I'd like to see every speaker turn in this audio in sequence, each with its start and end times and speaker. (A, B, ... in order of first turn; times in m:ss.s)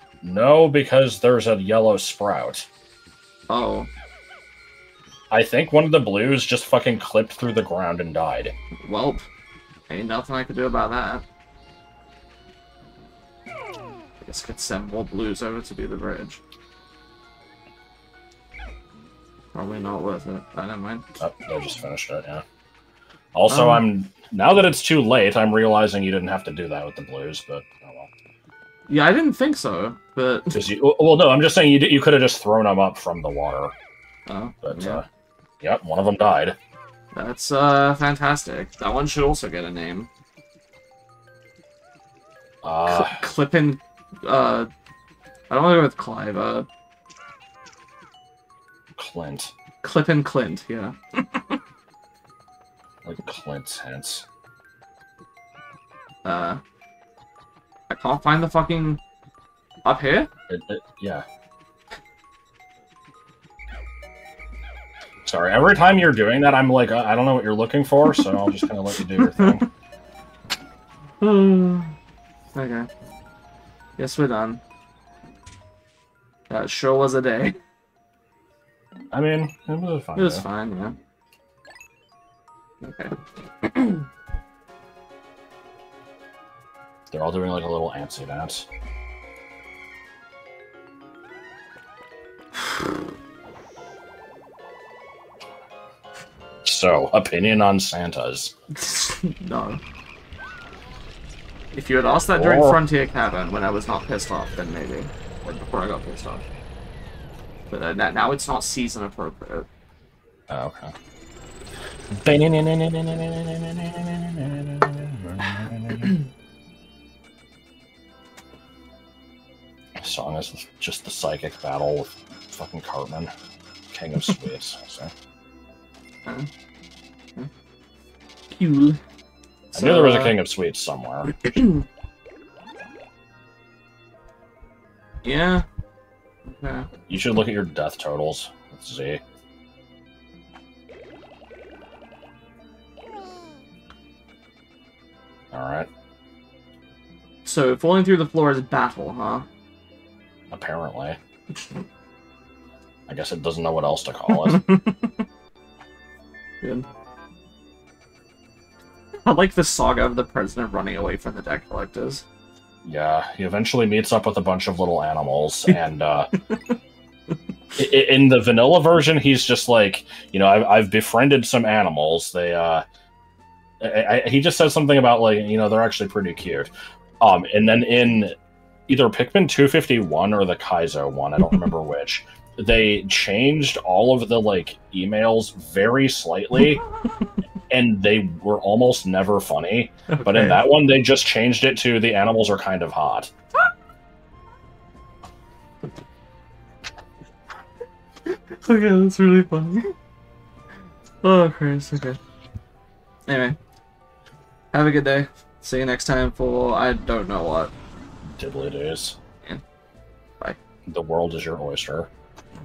0:00.2-0:02.7 A
0:03.5-0:03.9 B
0:05.3-0:08.5 A
0:08.8-0:09.2 B
0:09.9-0:11.2 B
0:14.2-0:16.4 B
0:19.5-0:21.0 B
0:21.2-0:22.4 A
0:23.3-0:28.1 A
0:23.5-0:23.8 B
0:28.9-0:30.6 B
0:30.5-0:33.7 A
0:34.3-0:35.0 B
0:34.6-0:35.1 A
0:35.6-0:36.6 A
0:37.1-0:40.1 B
0:42.6-0:43.2 A
0:42.9-0:44.7 B
0:45.5-0:46.7 B
0:49.0-0:49.5 A
0:49.8-0:51.6 B
0:53.0-0:54.3 A
0:56.2-0:56.6 B
0:57.9-0:59.0 B
0:59.8-1:00.3 B
1:00.5-1:01.2 A
1:05.2-1:09.6 A
1:09.0-1:09.6 B
1:11.2-1:11.9 B
1:12.5-1:12.9 B
1:14.0-1:14.6 B
1:16.5-1:17.6 B
1:19.1-1:20.4 A
1:20.2-1:21.0 B
1:22.8-1:24.1 B
1:27.1-1:28.7 A
1:36.6-1:38.6 A
1:38.7-1:39.8 B
1:41.7-1:46.4 B
1:42.3-1:42.8 A
1:47.7-1:49.7 B
1:50.5-1:50.9 A
1:52.1-1:56.2 A
2:00.0-2:03.3 A
2:03.9-2:05.1 A
2:08.5-2:09.0 B
2:09.7-2:11.5 A
2:09.7-2:10.4 B
2:15.2-2:15.6 B
2:16.5-2:16.9 B
2:17.1-2:19.2 A
2:25.5-2:25.9 A
2:27.4-2:29.4 B
2:30.5-2:31.2 A
2:33.1-2:34.7 A
2:34.3-2:35.1 B
2:39.2-2:42.2 B
2:42.8-2:46.3 A
2:47.8-2:52.8 A
2:53.8-2:58.4 A
2:58.9-3:06.8 A
3:07.7-3:13.3 A
3:10.1-3:10.6 B
3:18.3-3:19.9 B
3:21.2-3:22.2 B
3:23.3-3:23.6 B
3:24.7-3:27.7 B
3:28.4-3:29.2 A
3:30.9-3:32.1 A